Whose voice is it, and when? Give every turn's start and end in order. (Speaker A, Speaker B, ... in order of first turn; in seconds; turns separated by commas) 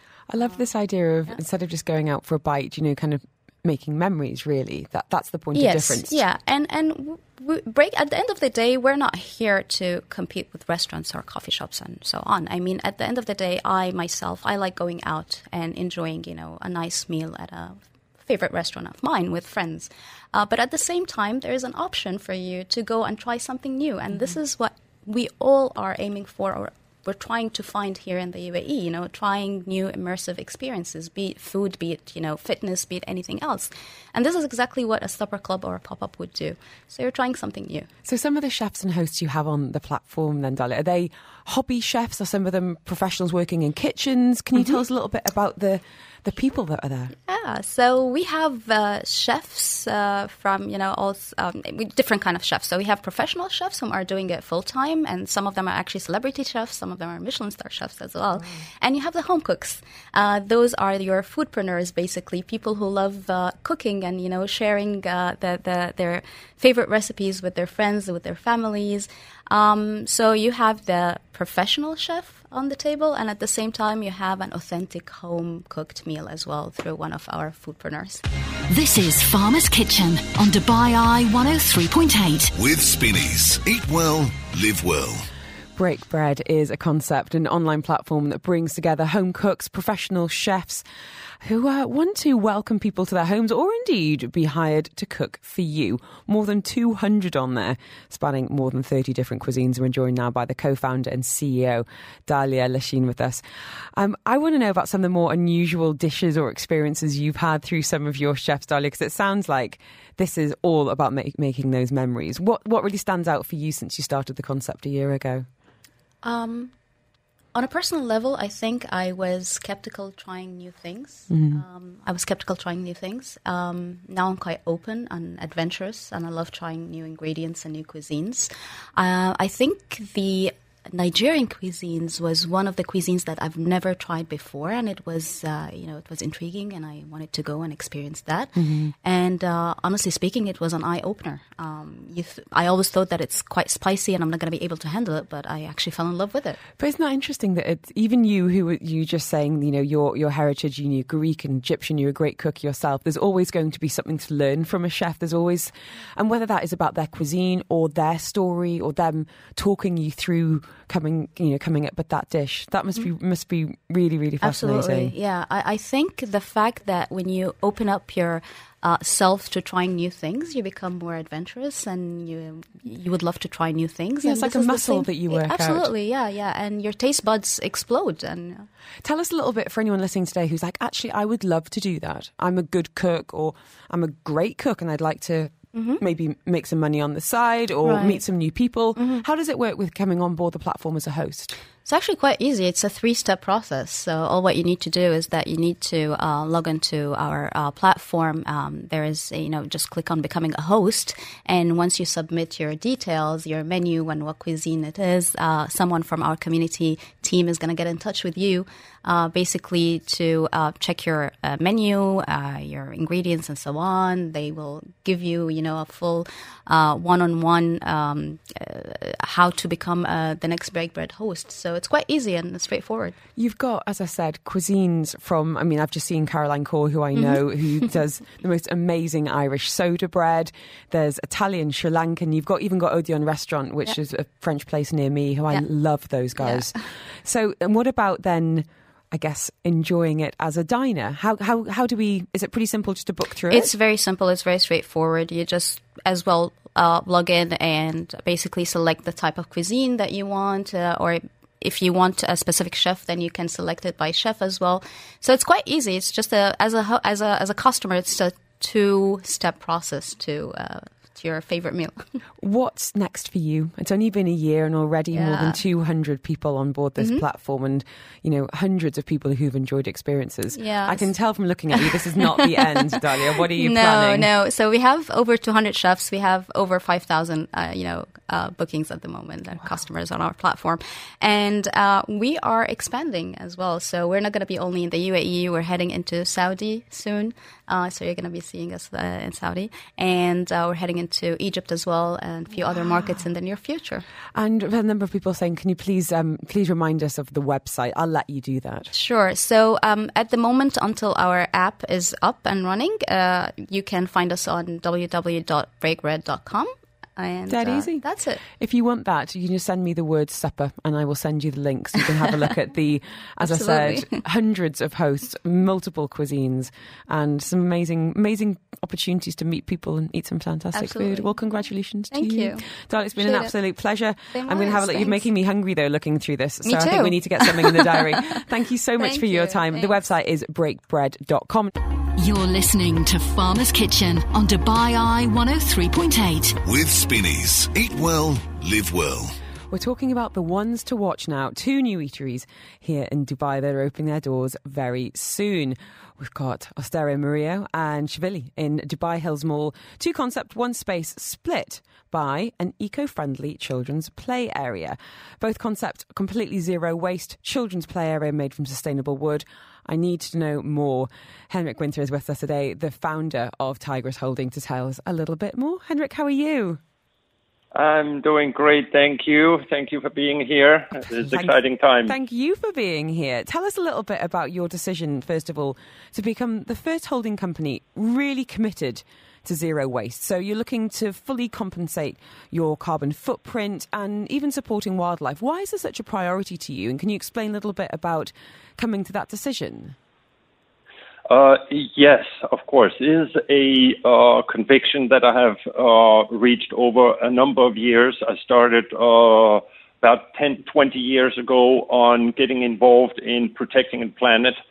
Speaker A: 0.3-6.2, Speaker B: 5.5-37.9, Speaker A: 38.0-47.1, Speaker B: 47.3-78.2, Speaker C: 78.7-82.5, Speaker D: 82.5-85.3, Speaker A: 85.8-90.8, Speaker A: 91.4-103.4, Speaker A: 104.0-115.5, Speaker B: 116.2-116.7, Speaker B: 117.5-146.6, Speaker A: 121.3-121.6, Speaker A: 138.6-138.9, Speaker A: 146.8-165.1, Speaker B: 164.4-178.7, Speaker A: 174.2-175.9, Speaker A: 179.0-191.6, Speaker B: 185.7-186.0, Speaker B: 187.8-188.2, Speaker B: 188.9-189.2, Speaker B: 191.8-223.2, Speaker A: 223.4-243.7, Speaker B: 227.1-227.8, Speaker B: 236.4-236.7, Speaker B: 243.5-262.1, Speaker A: 262.4-274.3, Speaker B: 265.1-265.6, Speaker B: 267.0-267.2, Speaker B: 270.5-271.1, Speaker B: 271.7-272.9, Speaker B: 273.6-294.1, Speaker A: 294.3-298.9, Speaker B: 298.9-308.4, Speaker A: 307.5-308.0, Speaker A: 308.6-331.7, Speaker B: 313.4-314.2, Speaker B: 320.7-321.3, Speaker B: 322.1-322.7, Speaker B: 323.2-323.5, Speaker B: 324.3-325.2, Speaker B: 326.6-328.2, Speaker B: 329.0-329.9, Speaker C: 332.2-336.6, Speaker D: 336.6-339.4, Speaker A: 339.7-366.8, Speaker E: 367.7-372.1, Speaker A: 371.3-389.9, Speaker E: 391.3-404.6